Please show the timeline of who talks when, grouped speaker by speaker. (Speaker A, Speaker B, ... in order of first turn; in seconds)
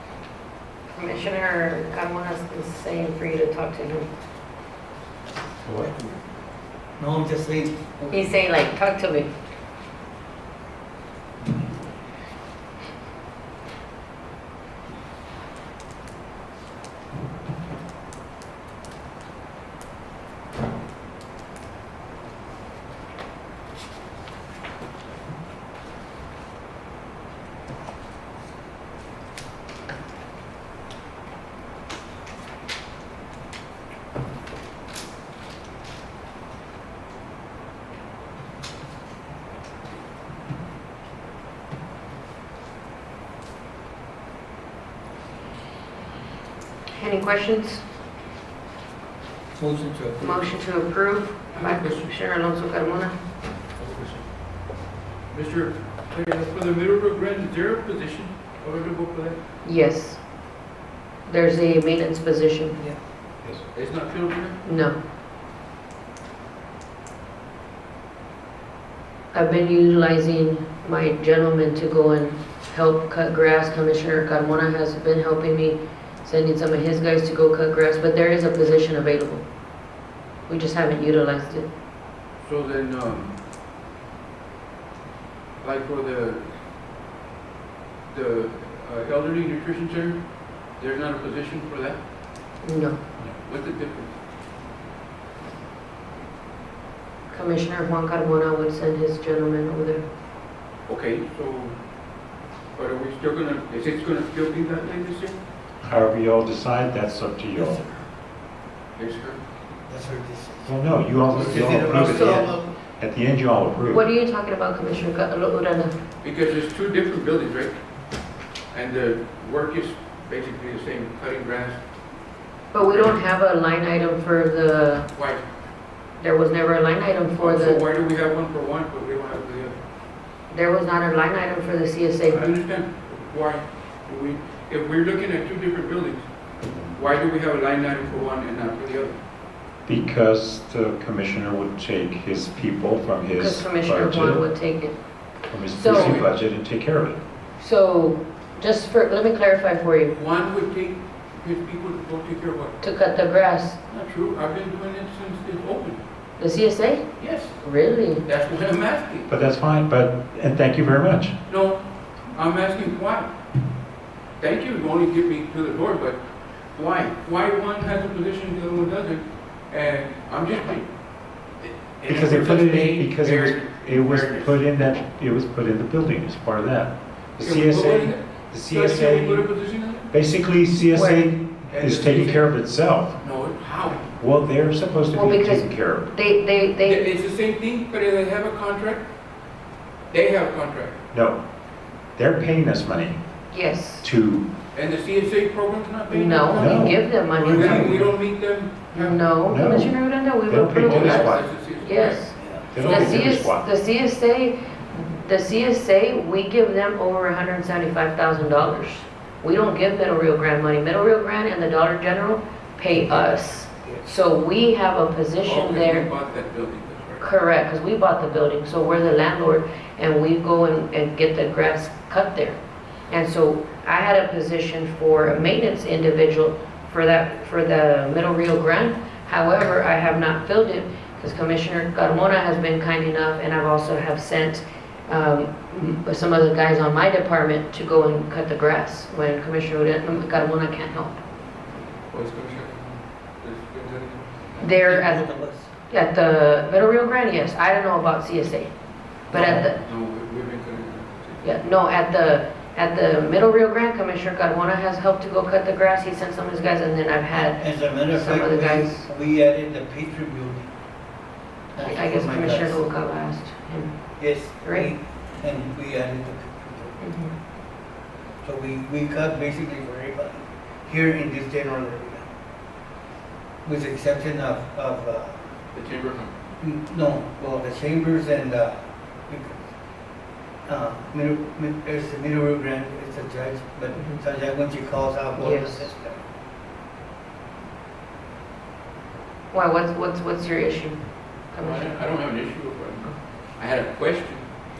Speaker A: 0.9-4.1, 8.1-9.3, 46.9-47.8, 50.2-53.1, 59.6-60.2, 61.3-62.8, 64.6-65.0, 69.3-79.5, 80.5-81.7, 92.6-93.0, 97.3-100.0, 112.0-112.5, 113.9-116.0, 122.7-125.1, 126.2-127.8, 130.5-132.5, 143.4-145.0, 145.7-146.2, 147.6-150.2, 152.8-153.8, 156.4-157.1, 157.6-158.2, 180.9-181.3, 185.1-187.1, 193.5-194.1, 196.1-197.9, 198.9-216.1, 217.2-241.2, 244.6-245.3, 245.9-248.7, 249.3-249.8, 251.4-259.1, 261.8-264.9, 267.0-267.3, 285.4-285.9, 289.5-292.0
Speaker B: 5.7-5.9, 63.4-63.7, 105.8-107.8, 110.7-114.0, 139.8-144.4, 145.5-147.2, 159.3-161.3, 172.1-179.5, 180.1-183.2, 184.2-186.1, 191.1-191.4, 192.2-193.2, 194.0-194.5, 196.6-197.1, 199.5-201.5, 202.7-203.7
Speaker C: 7.0-8.3, 49.6-50.5, 107.6-107.8, 109.9-112.7, 197.4-198.1, 202.4-202.7, 244.8-245.7, 249.3-249.6, 257.5-260.7, 261.7-262.8, 264.2-267.0, 268.4-272.3, 273.6-275.4, 276.6-279.6, 280.7-286.2
Speaker D: 51.5-52.1, 53.8-54.2, 55.3-59.4, 63.7-64.6, 82.4-83.3, 85.6-86.5, 88.1-92.0, 93.4-94.1, 100.9-101.8, 102.8-105.4, 109.0-109.4, 116.2-117.8, 118.7-121.8, 122.8-123.2, 125.1-125.5, 127.4-129.8, 132.3-136.3, 136.9-139.2, 145.8-146.3, 150.1-152.8, 153.9-156.0, 157.2-157.6, 158.2-159.3, 161.5-163.3, 164.4-166.2, 166.7-170.9, 171.6-174.6, 177.4-180.1, 181.7-182.5, 183.2-184.1, 186.8-189.1, 190.1-191.0, 194.7-199.2, 200.8-202.2, 202.8-203.1, 215.4-217.3, 242.1-244.4, 249.4-251.6, 275.7-276.4, 291.6-294.5